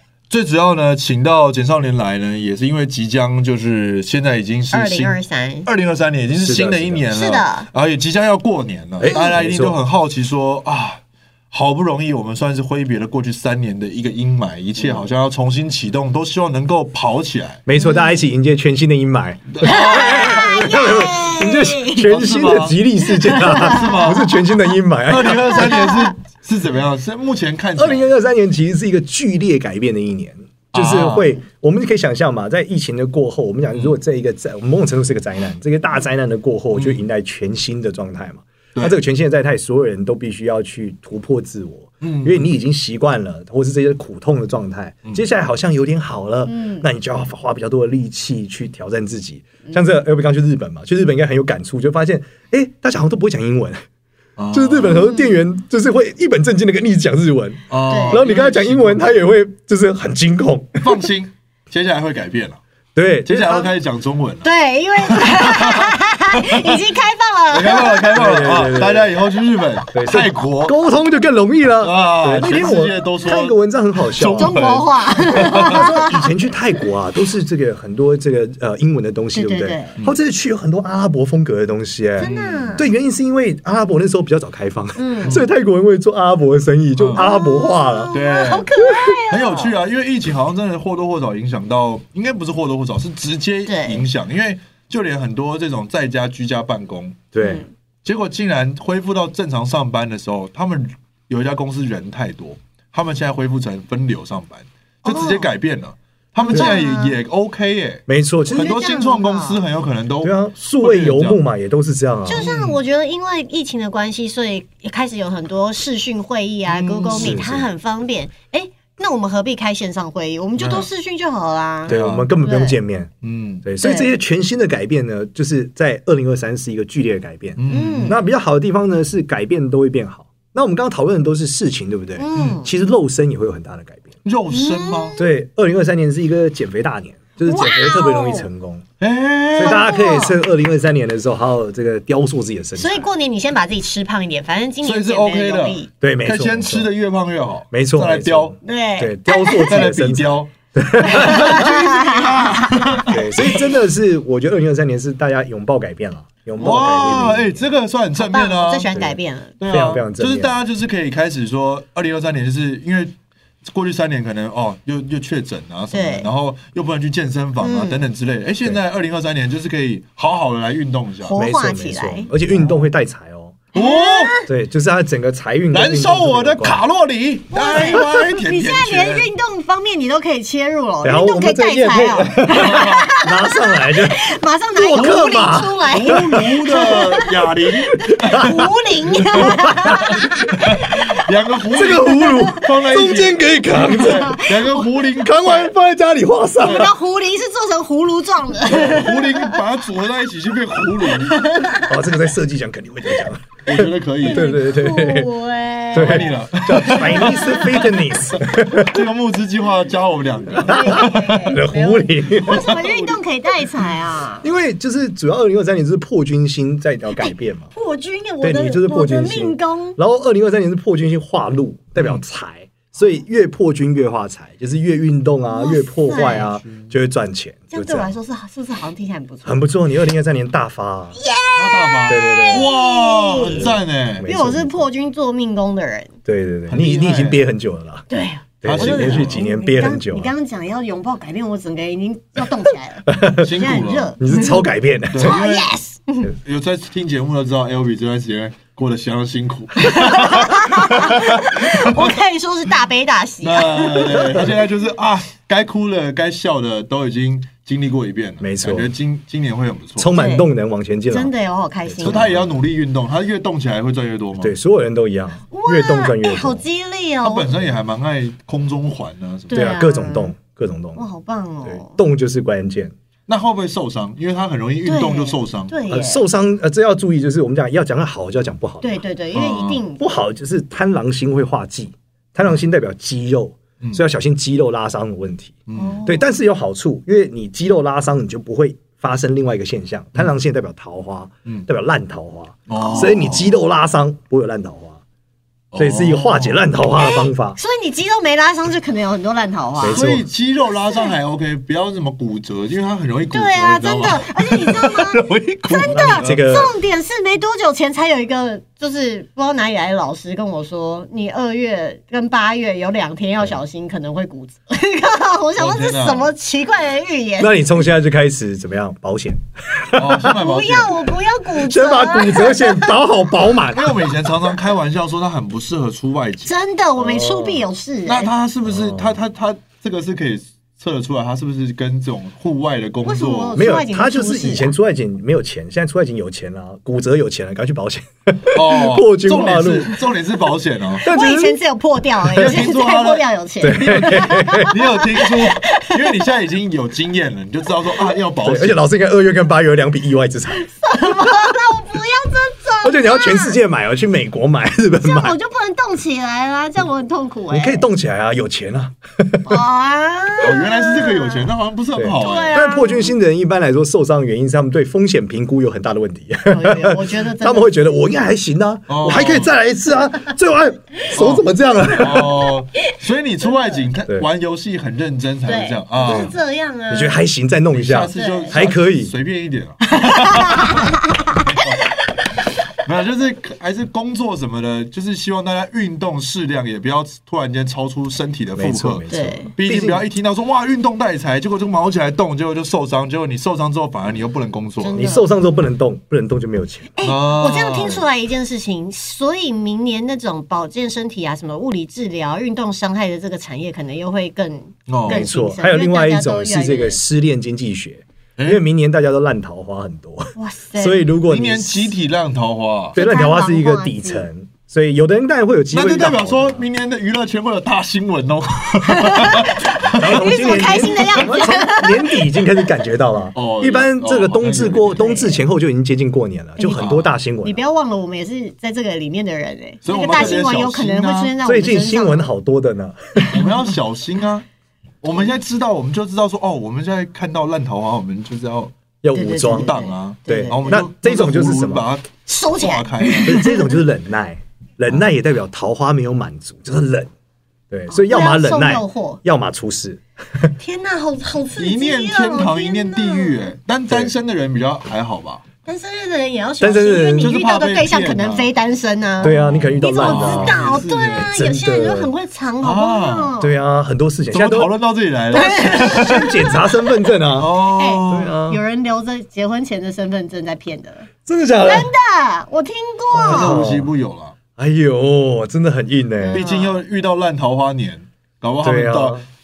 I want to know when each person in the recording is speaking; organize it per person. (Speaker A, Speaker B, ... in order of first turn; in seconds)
Speaker A: 0.3-17.6, 19.6-20.6, 22.0-22.8, 23.4-24.4, 25.1-28.1, 30.7-31.4, 36.8-37.0, 42.0-42.5, 54.4-55.1, 57.7-59.1, 60.8-62.6, 63.3-66.8, 67.5-70.8, 71.8-73.6, 74.2-76.0, 82.2-82.7, 87.0-87.2, 88.1-88.7, 89.3-97.2, 98.0-111.4, 112.3-112.8, 116.7-117.5, 120.6-120.9, 121.9-122.3, 123.2-123.7, 127.6-128.2, 132.3-132.6, 134.2-135.2, 139.0-139.9, 144.8-148.6, 149.7-153.6, 156.6-158.9, 159.6-171.4, 172.5-172.8, 173.7-174.4, 175.7-179.3, 182.6-183.1, 184.9-188.7, 189.2-195.7, 198.7-201.5, 203.7-204.5, 205.9-211.4, 212.5-213.2, 226.3-226.9, 231.5-234.3, 236.7-237.5, 238.7-239.4, 243.4-244.2, 245.1-245.7, 246.3-252.2, 253.4-260.1, 262.0-264.6, 267.2-269.7, 273.3-275.7, 279.3-279.8, 285.7-286.0, 292.7-293.5, 295.7-296.6, 299.9-306.6, 315.6-316.3, 319.9-321.1, 323.7-326.5, 328.1-333.6, 338.5-341.1, 342.3-348.8, 360.4-362.6, 368.9-369.5, 371.1-376.4, 377.7-380.9, 382.8-389.0, 389.6-395.0, 397.0-398.0, 404.9-405.2, 408.4-408.6, 411.3-413.0, 415.7-421.4, 423.4-425.1, 426.8-427.1, 429.8-431.4, 433.3-434.5, 435.0-438.7, 439.5-443.5, 451.6-455.4, 457.2-458.5, 459.2-461.3, 462.6-463.4, 464.3-466.4, 467.4-468.3, 473.2-474.4, 476.3-479.2
Speaker B: 4.7-5.7, 7.1-7.7, 9.1-9.3, 17.8-18.2, 19.6-22.1, 23.2-24.3, 25.6-26.1, 46.5-46.9, 55.0-55.3, 57.9-58.2, 64.4-68.2, 74.3-76.3, 79.3-80.0, 82.2-82.9, 85.0-85.4, 87.2-89.7, 93.7-94.0, 97.4-97.7, 105.0-105.5, 106.4-107.2, 108.5-109.6, 112.3-122.8, 123.8-124.1, 127.7-128.2, 132.2-132.7, 134.5-135.3, 137.5-138.5, 139.6-140.4, 142.8-145.9, 148.6-149.9, 151.0-153.1, 158.2-159.6, 165.9-166.3, 167.6-168.1, 171.2-172.3, 173.7-174.5, 177.5-191.2, 192.0-192.6, 193.7-195.6, 196.6-199.6, 201.1-201.9, 204.2-207.9, 210.6-214.5, 217.2-220.0, 225.6-226.5, 227.7-229.6, 231.2-236.1, 238.1-244.7, 245.2-246.3, 249.8-254.5, 260.1-260.5, 261.1-262.3, 265.5-267.5, 269.5-270.3, 271.0-272.0, 274.9-276.2, 278.8-280.1, 285.8-286.3, 297.0-300.0, 300.8-301.1, 303.3-317.6, 320.3-323.0, 326.5-328.3, 333.1-334.7, 341.0-346.2, 350.6-353.6, 355.0-357.9, 359.5-361.5, 362.2-363.1, 366.5-367.8, 375.5-377.2, 378.1-378.6, 379.9-381.7, 389.1-389.5, 394.8-395.3, 397.0-407.0, 410.4-411.1, 412.9-414.3, 418.9-422.5, 425.0-425.4, 426.6-432.3, 439.1-440.6, 442.3-443.8, 447.9-449.2, 450.6-453.5, 455.7-463.5, 465.3-466.8, 467.8-471.1, 471.6-473.6, 476.2-476.8
Speaker C: 6.4-7.1, 9.0-9.8, 17.7-25.8, 27.8-53.8, 54.5-61.1, 63.0-63.7, 68.1-69.1, 69.9-74.6, 75.3-88.2, 88.8-89.1, 97.3-97.6, 108.1-108.7, 110.2-112.5, 117.1-117.7, 121.9-123.1, 123.6-134.1, 135.2-138.8, 139.6-143.1, 146.0-146.9, 147.7-151.8, 153.0-157.7, 159.7-160.5, 171.3-173.6, 174.5-176.8, 181.0-187.0, 188.1-188.6, 189.3-190.6, 191.7-194.5, 195.2-196.9, 201.8-205.3, 205.9-209.0, 210.7-212.8, 214.4-217.7, 218.4-228.1, 229.4-231.2, 232.1-232.7, 233.5-234.9, 236.2-238.1, 238.6-240.3, 243.1-243.5, 244.2-245.4, 258.4-258.9, 260.0-261.3, 261.9-262.5, 264.4-266.6, 269.5-271.0, 271.6-272.9, 275.9-279.0, 280.0-295.0, 295.8-297.6, 299.8-300.2, 305.8-306.7, 317.4-320.3, 321.6-324.1, 327.0-327.6, 328.7-329.2, 333.6-340.1, 341.0-341.6, 343.6-344.8, 348.4-350.7, 352.8-355.4, 357.5-359.5, 361.9-372.5, 376.1-376.3, 376.9-379.1, 388.6-390.0, 394.9-396.9, 405.1-411.9, 412.9-416.6, 419.9-427.6, 431.4-433.4, 439.0-439.7, 440.3-441.9, 443.2-447.1, 447.7-450.5, 456.6-457.3, 459.2-460.6, 461.3-462.1, 463.4-464.7, 465.4-468.6, 471.3-471.9, 473.1-473.9, 474.6-476.4, 478.6-479.2